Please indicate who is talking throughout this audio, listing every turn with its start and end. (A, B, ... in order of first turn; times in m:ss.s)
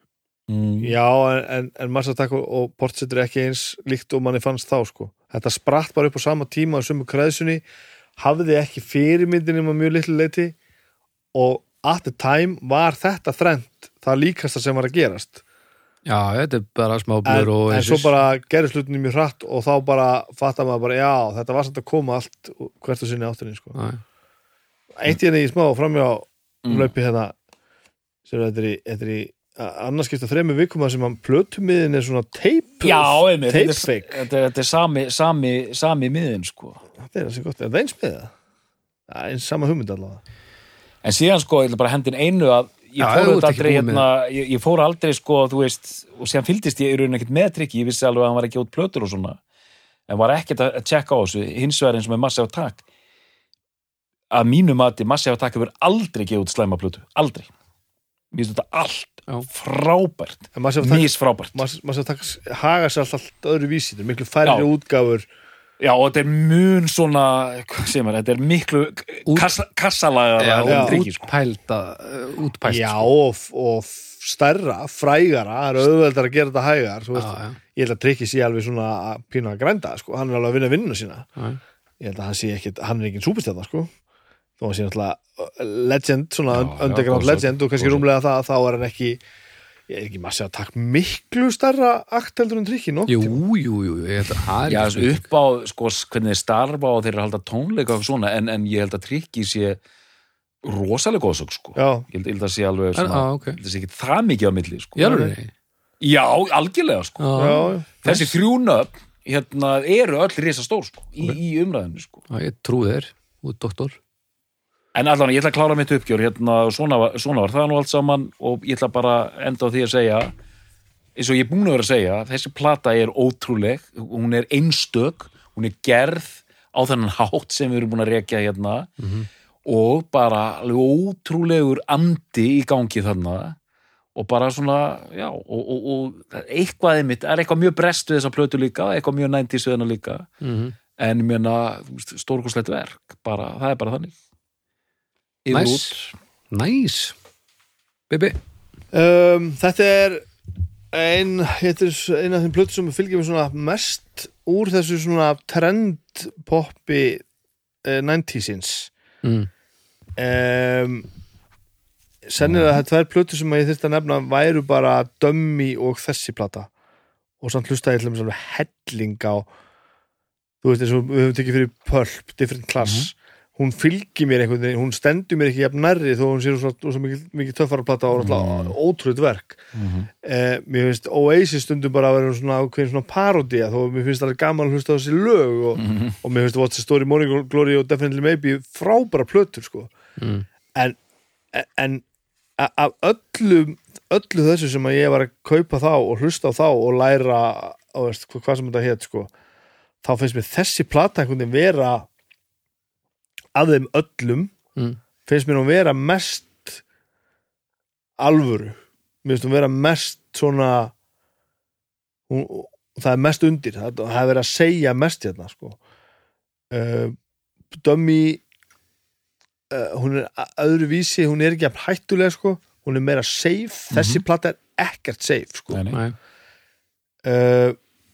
0:00.5-0:00.9 A
0:00.8-0:07.6 B
0:08.2-0:10.6 B
0:11.3-0:15.4 B
0:16.0-0:18.1 C
0:17.2-0:23.8 B
0:23.8-0:24.0 C
0:25.0-0:27.3 B
0:26.6-0:26.9 A
0:28.3-0:34.2 B
0:32.8-0:36.8 A
0:37.0-0:38.3 B
0:39.1-0:40.2 B
0:41.0-0:49.4 A
0:43.0-0:44.0 C
0:50.1-0:52.8 A
0:54.3-0:57.5 A
0:58.3-1:01.6 A
1:00.6-1:05.3 B
1:05.8-1:11.3 A
1:09.3-1:09.5 C
1:10.4-1:13.1 C
1:10.7-1:11.0 B
1:12.7-1:21.3 B
1:17.1-1:17.6 C
1:22.0-1:23.9 B
1:24.6-1:29.2 B
1:26.5-1:28.0 A
1:29.9-1:33.4 B
1:33.1-1:35.2 C
1:34.7-1:39.8 A
1:40.6-1:45.2 A
1:41.8-1:42.0 B
1:43.0-1:43.6 C
1:45.0-1:45.5 C
1:45.0-1:45.3 B
1:46.0-1:47.5 A
1:47.2-1:48.4 C
1:47.4-1:47.9 B
1:48.0-1:52.2 A
1:52.3-1:54.0 C
1:54.9-2:00.3 A
2:01.2-2:08.9 A
2:09.0-2:09.3 C
2:09.6-2:13.6 A
2:14.2-2:20.3 A
2:20.4-2:20.7 C
2:21.0-2:24.1 A
2:25.4-2:26.1 A
2:25.5-2:26.0 C
2:26.5-2:27.1 C
2:28.1-2:28.4 C
2:28.9-2:30.3 B
2:30.9-2:37.2 B
2:37.8-2:38.9 B
2:39.2-2:39.5 C
2:40.2-2:41.1 B
2:42.3-2:46.7 B
2:47.4-2:49.5 B
2:50.6-2:59.6 B
2:52.8-2:53.1 A
2:58.1-2:58.8 A
2:59.7-3:00.1 A
3:00.2-3:09.9 B
3:05.8-3:06.2 A
3:10.2-3:10.4 C
3:11.5-3:12.0 B
3:12.6-3:19.3 B
3:20.0-3:22.1 B
3:23.6-3:24.5 B
3:25.3-3:26.8 B
3:28.2-3:30.9 B
3:32.3-3:35.8 B
3:36.7-3:37.1 B
3:37.7-3:38.4 B
3:39.7-3:45.8 B
3:43.9-3:44.2 A
3:45.7-3:46.0 A
3:47.2-3:47.8 B